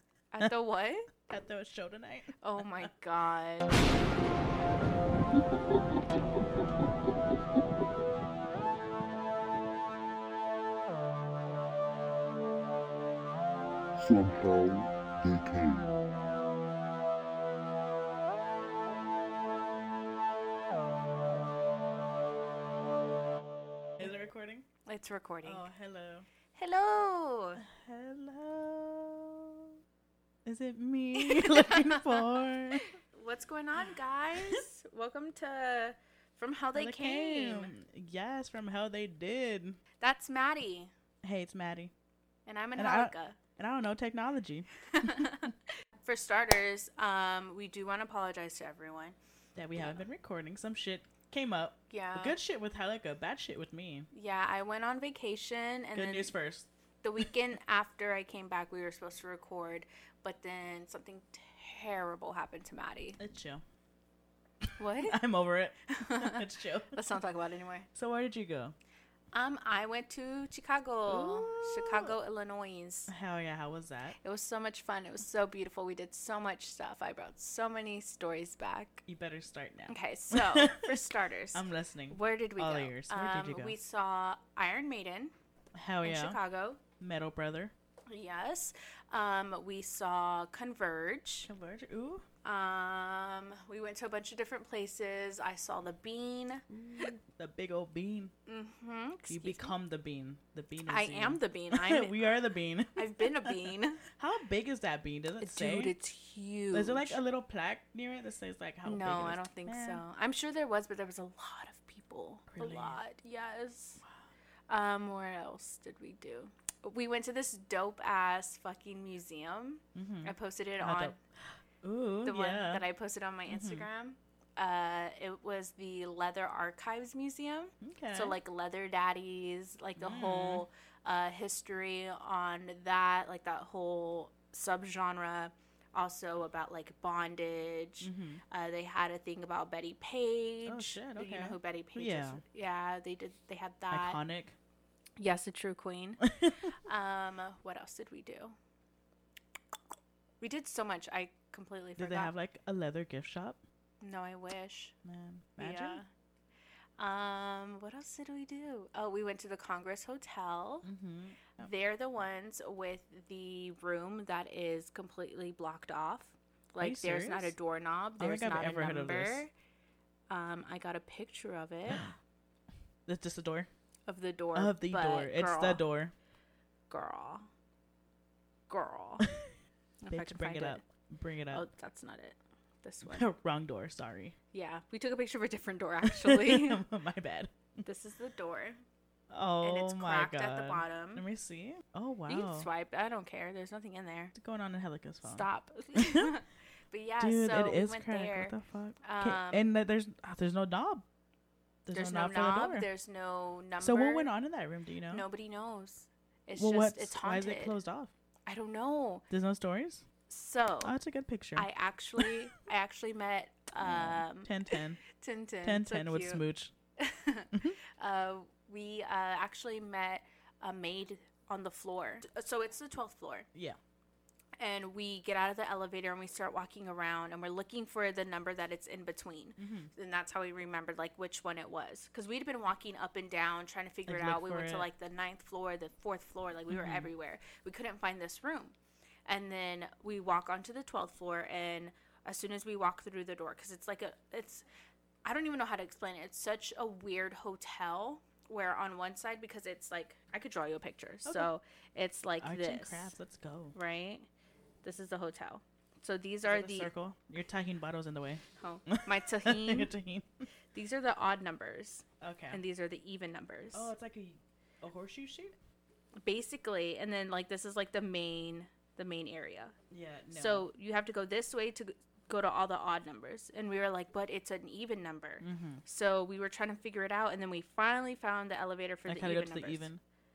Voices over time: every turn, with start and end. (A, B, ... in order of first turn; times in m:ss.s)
0:00.3-0:01.1 A
0:01.2-0:02.9 B
0:02.4-0:03.8 A
0:14.0-0:15.9 C
0:24.0-0:24.7 B
0:24.8-0:25.7 A
0:25.4-0:26.3 B
0:26.5-0:27.6 A
0:27.6-0:29.8 B
0:30.4-0:32.8 B
0:31.2-0:37.7 A
0:36.7-0:39.8 B
0:40.0-0:40.9 A
0:41.2-0:41.9 B
0:42.5-0:43.4 A
0:42.8-0:45.3 B
0:44.9-0:49.2 A
0:49.6-0:54.1 B
0:49.8-0:50.0 A
0:51.9-0:52.4 A
0:54.1-0:56.4 A
0:56.0-0:56.7 B
0:57.0-1:03.2 A
1:03.2-1:03.6 B
1:04.6-1:07.0 B
1:04.8-1:05.2 A
1:05.9-1:07.9 A
1:07.9-1:08.8 B
1:09.3-1:13.1 A
1:11.1-1:12.1 B
1:13.1-1:14.2 B
1:14.2-1:19.0 A
1:19.1-1:21.0 B
1:19.9-1:25.3 A
1:21.5-1:23.8 B
1:25.8-1:26.4 B
1:26.0-1:26.8 A
1:27.0-1:27.7 B
1:28.1-1:31.5 A
1:31.5-1:32.2 B
1:32.4-1:37.1 A
1:36.7-1:38.3 B
1:38.5-1:39.7 A
1:39.3-1:45.9 B
1:40.9-1:42.2 A
1:43.0-1:44.0 A
1:45.4-1:47.2 A
1:46.7-1:50.0 B
1:48.8-1:54.0 A
1:52.5-1:53.0 B
1:54.7-2:01.2 A
2:00.0-2:01.2 B
2:01.8-2:02.8 B
2:02.2-2:24.2 A
2:03.5-2:03.9 B
2:07.8-2:08.4 B
2:10.0-2:10.6 B
2:18.0-2:18.4 B
2:20.7-2:22.4 B
2:23.9-2:24.6 B
2:25.2-2:26.2 A
2:26.2-2:26.7 B
2:26.8-2:28.6 A
2:30.4-2:32.3 A
2:32.0-2:33.6 B
2:34.0-2:34.9 A
2:35.0-2:36.0 B
2:35.6-2:36.1 A
2:37.0-2:40.9 A
2:40.8-2:41.7 B
2:41.6-2:49.5 A
2:46.8-2:47.6 B
2:48.2-2:49.4 B
2:50.3-2:52.1 A
2:51.9-2:52.1 B
2:53.1-2:53.7 B
2:54.1-2:55.8 A
2:54.6-2:56.1 B
2:56.9-2:57.5 A
2:58.7-2:59.3 A
3:00.0-3:00.8 A
3:00.1-3:01.6 B
3:01.5-3:03.3 A
3:03.0-3:04.4 B
3:04.5-3:06.8 A
3:06.0-3:07.5 B
3:07.8-3:08.8 A
3:09.3-3:12.7 B
3:09.6-3:11.2 A
3:12.3-3:14.3 A
3:14.4-3:16.3 B
3:15.2-3:19.7 A
3:17.2-3:21.0 B
3:21.9-3:22.9 B
3:21.9-3:24.3 A
3:23.8-3:25.2 B
3:25.1-3:27.8 A
3:26.6-3:28.1 B
3:28.5-3:29.2 A
3:29.3-3:30.1 B
3:30.3-3:30.9 A
3:30.8-3:32.4 B
3:31.6-3:36.4 A
3:33.8-3:35.0 B
3:35.6-3:36.7 B
3:37.0-3:43.5 A
3:37.5-3:37.8 B
3:44.6-4:04.6 A
3:49.6-3:49.9 B
3:54.1-3:54.9 B
3:56.7-3:57.1 B
4:05.2-4:13.1 A
4:11.2-4:11.5 B
4:12.4-4:13.8 B
4:13.7-4:14.3 A
4:14.8-4:16.9 A
4:16.4-4:20.5 B
4:18.6-4:19.9 A
4:20.7-4:23.9 A
4:22.2-4:22.6 B
4:23.7-4:25.6 B
4:26.2-4:29.8 A
4:29.9-4:30.6 B
4:30.3-4:39.9 A
4:35.4-4:35.8 B
4:39.1-4:40.0 B